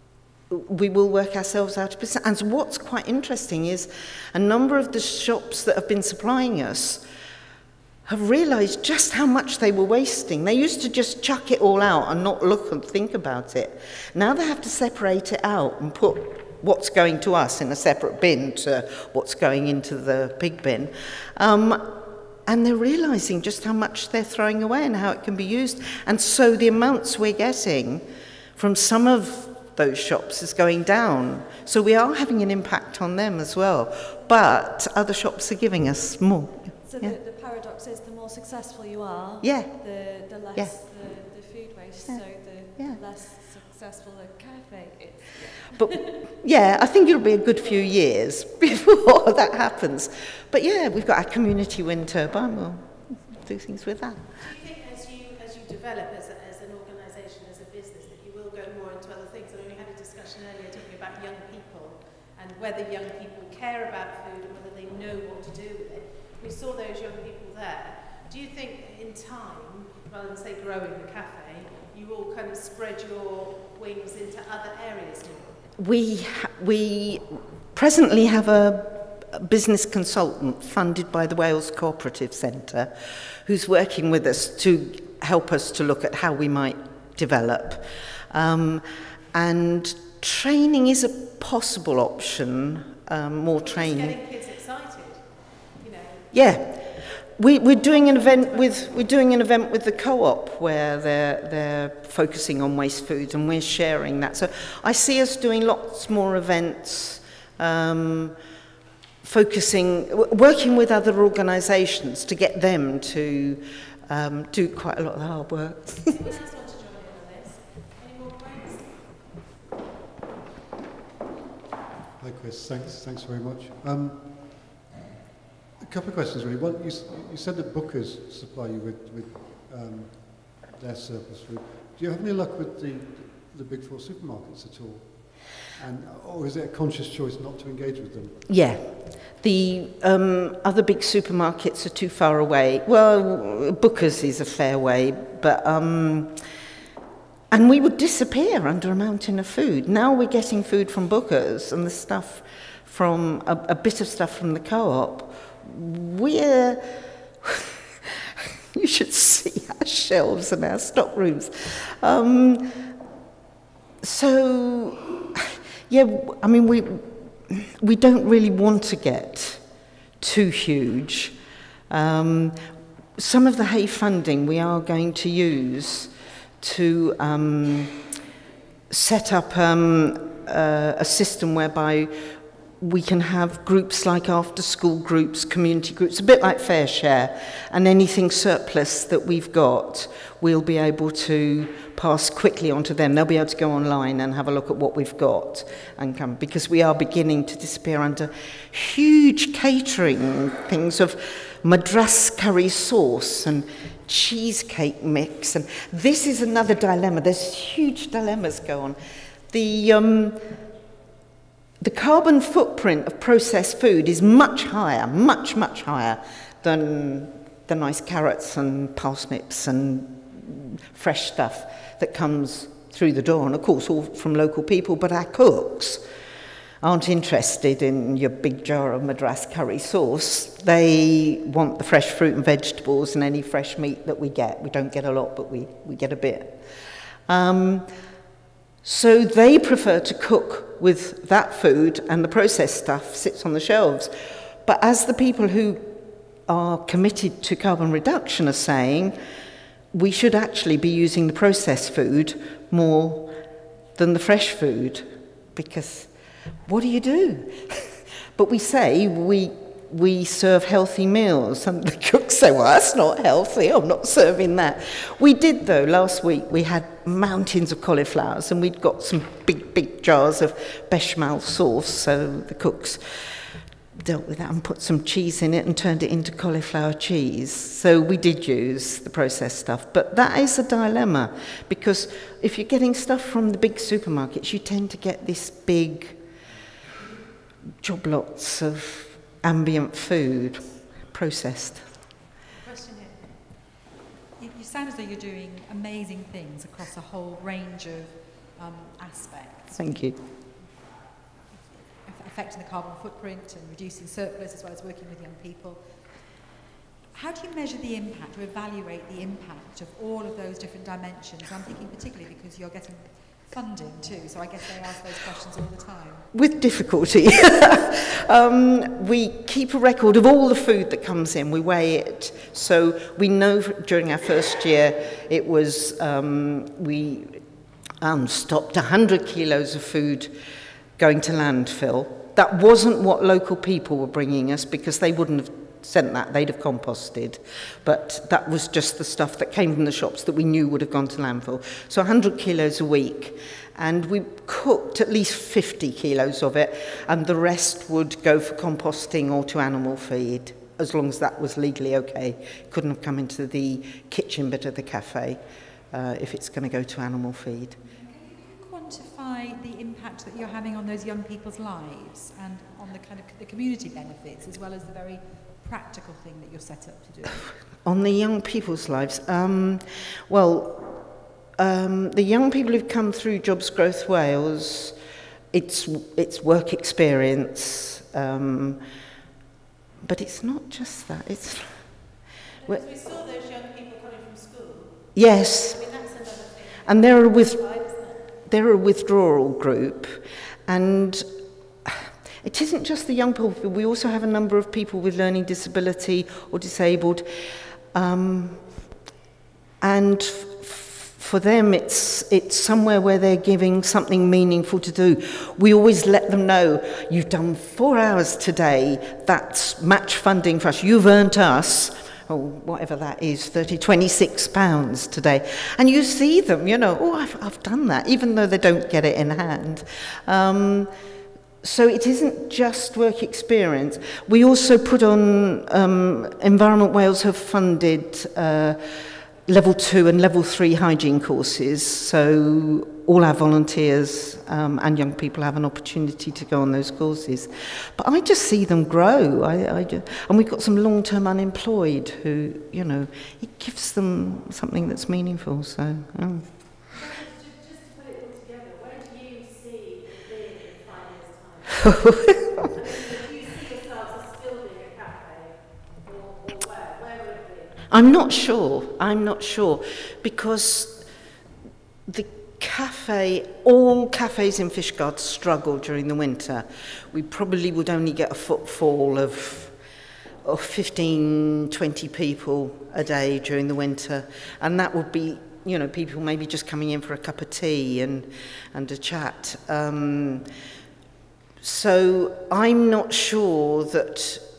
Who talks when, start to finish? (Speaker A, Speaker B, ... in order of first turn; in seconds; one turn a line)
Speaker A: 0.5-7.0
Speaker A: 8.1-28.1
Speaker A: 28.6-37.2
Speaker B: 36.8-46.1
Speaker A: 39.4-40.8
Speaker A: 42.0-43.0
Speaker A: 45.8-54.2
Speaker C: 54.4-75.6
Speaker A: 75.8-82.9
Speaker A: 83.5-94.2
Speaker C: 93.6-97.1
Speaker A: 96.3-108.4
Speaker C: 97.6-99.1
Speaker A: 109.2-116.1
Speaker C: 116.1-119.0
Speaker D: 122.2-124.8
Speaker D: 125.8-138.5
Speaker A: 138.5-146.4
Speaker A: 147.5-156.9
Speaker A: 157.4-158.2
Speaker A: 158.8-162.9
Speaker A: 164.0-169.7
Speaker A: 170.2-171.3
Speaker A: 171.9-172.6
Speaker A: 173.2-178.0
Speaker A: 178.9-209.0
Speaker A: 209.5-210.4
Speaker A: 211.8-226.1
Speaker A: 226.8-236.6
Speaker A: 237.3-237.9
Speaker A: 238.8-244.1
Speaker A: 244.7-245.9
Speaker A: 246.5-249.2
Speaker A: 249.9-253.3
Speaker A: 253.9-256.1
Speaker A: 256.7-273.0
Speaker A: 274.0-286.2
Speaker A: 287.8-292.0
Speaker C: 292.6-293.3
Speaker E: 294.4-300.2
Speaker A: 299.8-300.2
Speaker E: 301.5-306.1
Speaker E: 307.1-316.3
Speaker A: 316.3-327.4
Speaker A: 328.0-330.4
Speaker A: 331.0-355.4
Speaker A: 355.9-357.8
Speaker E: 357.9-367.5
Speaker A: 367.8-371.0
Speaker A: 371.6-374.9
Speaker A: 375.5-378.8
Speaker A: 380.0-382.1
Speaker C: 382.5-388.3
Speaker A: 385.1-386.0
Speaker A: 386.9-391.3
Speaker A: 391.9-397.3
Speaker A: 397.9-398.8
Speaker A: 399.8-420.9
Speaker A: 421.6-428.8
Speaker A: 429.5-446.5
Speaker C: 446.9-457.8
Speaker A: 457.9-461.1
Speaker A: 462.1-469.7
Speaker A: 470.4-480.5
Speaker A: 481.6-484.4